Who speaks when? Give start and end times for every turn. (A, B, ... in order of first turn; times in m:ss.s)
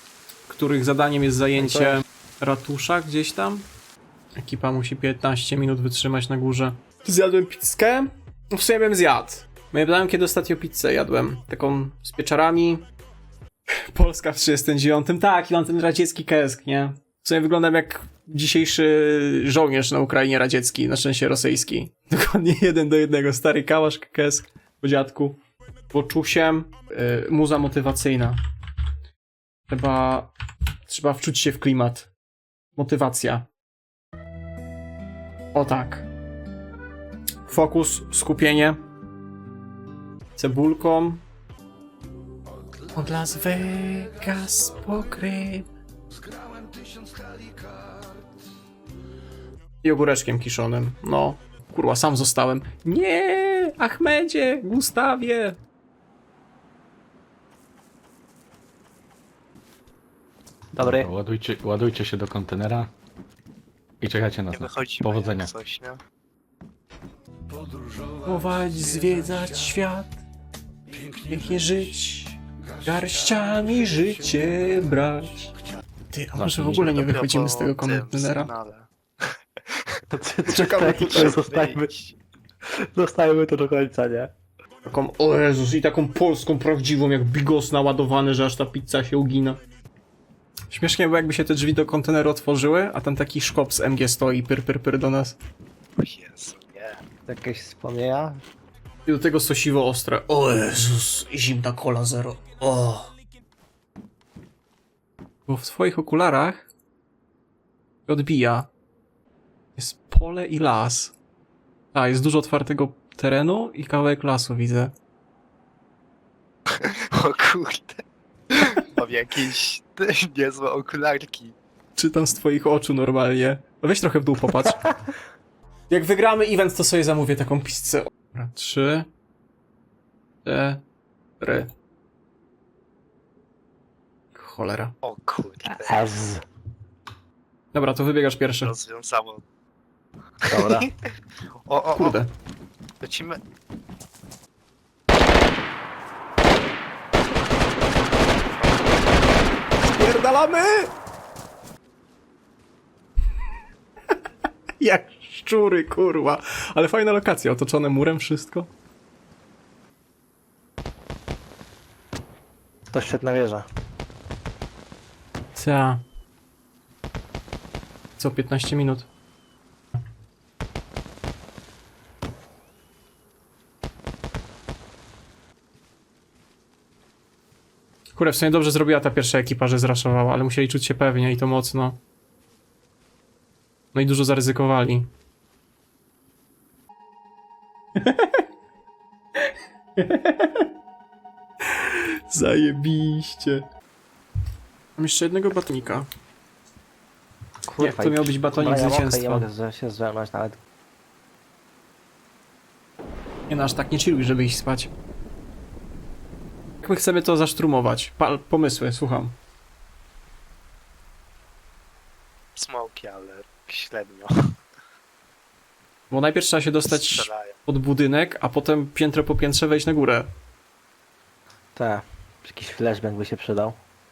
0:00.5-0:03.6 A
0:01.6-0:01.9 B
0:04.4-0:12.8 A
0:13.7-0:25.4 A
0:25.9-0:28.4 A
0:29.7-0:30.3 A
0:30.9-0:32.1 A
0:32.7-0:33.5 A
0:35.5-0:36.1 A
0:37.5-0:38.8 A
0:40.4-0:41.2 A
0:42.9-0:45.7 A
0:49.8-0:55.6 A
1:00.8-1:01.1 B
1:00.8-1:02.9 C
1:04.0-1:05.5 C
1:04.5-1:06.0 D
1:08.2-1:10.2 A
1:11.1-1:15.5 A
1:16.1-1:18.5 A
1:16.5-1:16.8 B
1:16.8-1:18.9 D
1:20.1-1:21.9 B
1:20.5-1:21.4 A
1:20.8-1:22.2 D
1:22.7-1:24.3 B
1:24.8-1:29.6 A
1:30.7-1:35.4 A
1:36.0-1:37.0 D
1:37.3-1:38.4 B
1:39.0-1:43.1 A
1:45.5-1:46.7 A
1:48.1-1:48.7 A
1:49.8-1:51.1 A
1:51.9-1:54.9 A
1:56.8-2:01.6 D
2:02.0-2:04.9 A
2:05.9-2:09.1 A
2:10.4-2:10.8 A
2:11.4-2:11.7 A
2:14.3-2:14.9 A
2:15.0-2:16.1 D
2:15.7-2:16.4 B
2:17.7-2:18.7 A
2:18.6-2:19.4 D
2:20.5-2:20.9 B
2:20.6-2:20.9 D
2:21.6-2:22.2 D
2:21.9-2:22.3 A
2:23.0-2:23.4 D
2:28.6-2:29.1 D
2:29.8-2:30.9 A
2:34.8-2:38.7 A
2:42.9-2:43.6 B
2:45.6-2:46.0 A
2:48.2-2:49.1 A
2:58.2-3:02.0 A
3:03.9-3:05.1 A
3:08.0-3:08.4 A
3:10.0-3:10.7 A
3:11.7-3:13.6 A
3:15.0-3:16.1 A
3:17.7-3:20.6 B
3:17.8-3:19.5 A
3:23.5-3:24.9 A
3:26.8-3:29.4 A
3:32.6-3:34.3 D
3:36.1-3:40.3 A
3:36.9-3:37.6 D
3:41.8-3:43.8 B